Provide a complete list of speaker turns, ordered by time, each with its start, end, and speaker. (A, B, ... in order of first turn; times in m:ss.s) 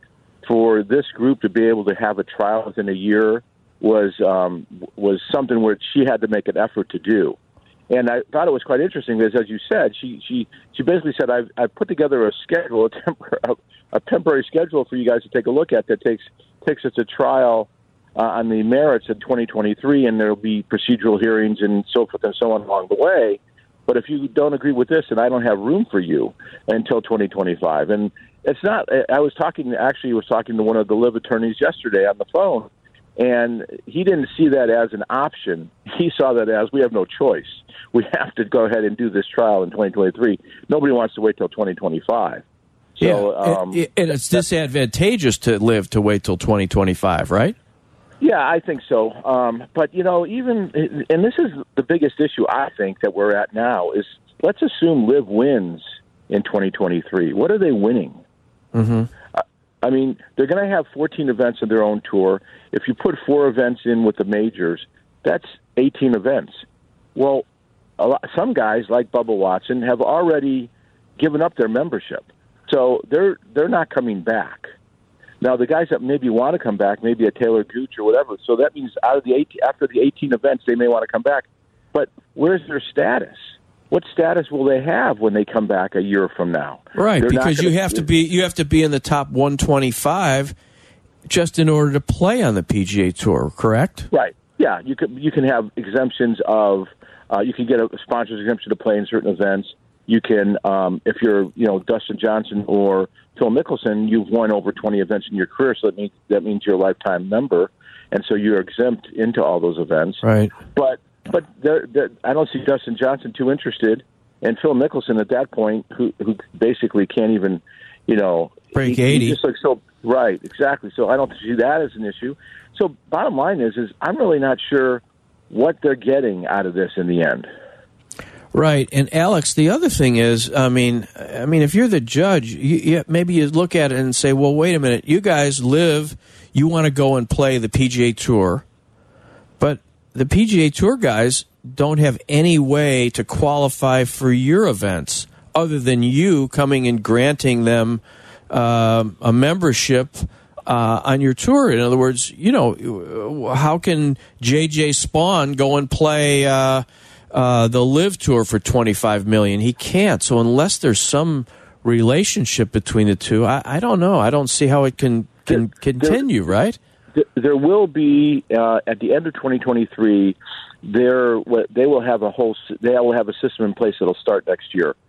0:00.4-0:07.4 A
0:07.9-0:42.4 A
0:43.0-0:43.8 A
0:43.0-0:47.6 B
0:48.2-0:58.2 A
0:58.7-0:59.1 B
0:59.3-1:06.6 A
1:07.2-1:07.4 A
1:08.0-1:14.7 A
1:15.4-1:23.4 A
1:23.9-1:28.0 A
1:27.0-1:30.5 B
1:31.3-1:34.1 B
1:34.1-1:50.2 A
1:50.2-1:50.5 B
1:50.7-2:07.5 A
1:58.7-1:59.4 B
2:08.5-2:18.6 B
2:19.6-2:46.8 B
2:47.2-2:55.0 A